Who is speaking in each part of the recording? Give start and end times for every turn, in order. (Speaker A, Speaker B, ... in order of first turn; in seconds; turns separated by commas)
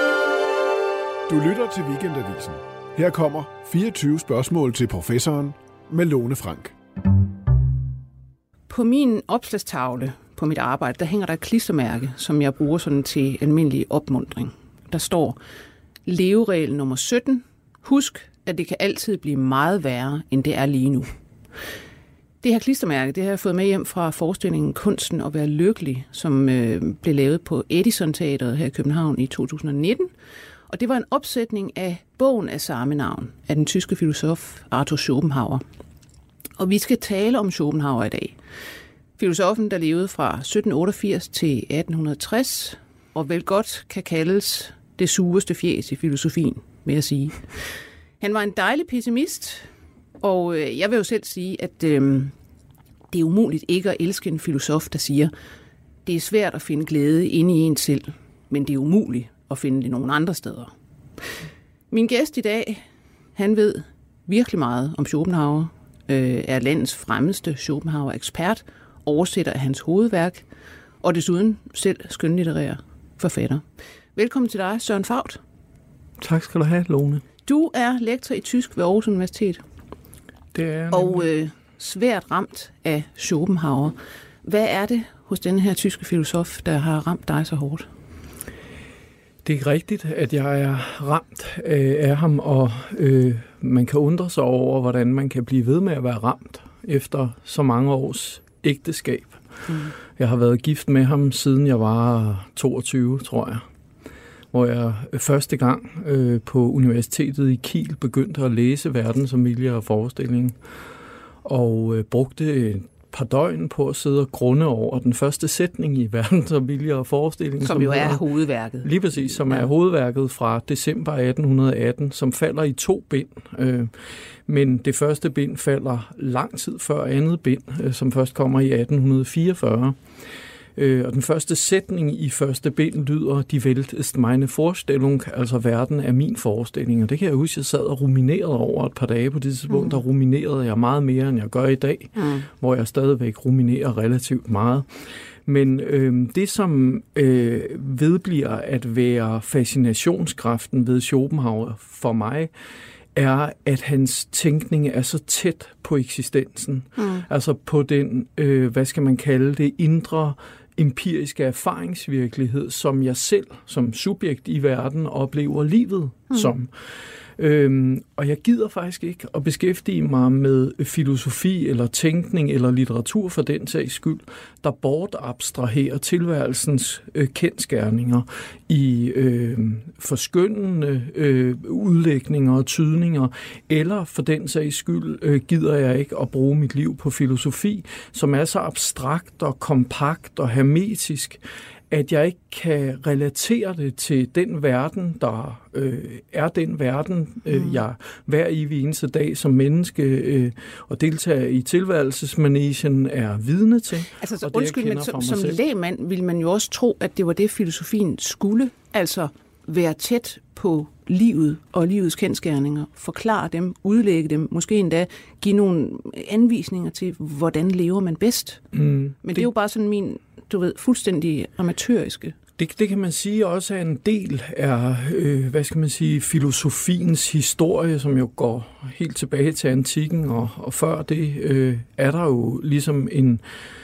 Speaker A: 1.3-6.8, Speaker B: 8.7-15.4, Speaker B: 16.1-21.1, Speaker B: 22.4-30.1, Speaker B: 30.7-35.6, Speaker B: 36.6-38.4, Speaker B: 39.2-47.6, Speaker B: 48.2-49.7, Speaker B: 50.2-52.3, Speaker B: 53.1-55.3, Speaker B: 56.1-60.7, Speaker B: 61.9-62.8, Speaker B: 63.4-70.5, Speaker B: 71.0-73.6, Speaker B: 74.2-75.4, Speaker C: 76.2-77.2, Speaker B: 77.5-79.6, Speaker C: 80.5-81.3, Speaker B: 80.9-87.9, Speaker C: 89.4-99.4, Speaker B: 99.7-99.9, Speaker C: 100.0-103.6, Speaker C: 104.5-110.6, Speaker C: 111.4-118.2, Speaker B: 117.6-119.7, Speaker C: 118.8-123.9, Speaker C: 124.5-130.0, Speaker C: 130.8-144.9, Speaker B: 142.2-142.5, Speaker C: 145.5-152.5, Speaker C: 153.2-166.7, Speaker B: 157.0-157.2, Speaker C: 167.4-205.6, Speaker B: 204.2-218.6, Speaker C: 218.7-219.5, Speaker B: 219.2-222.3, Speaker C: 222.6-233.4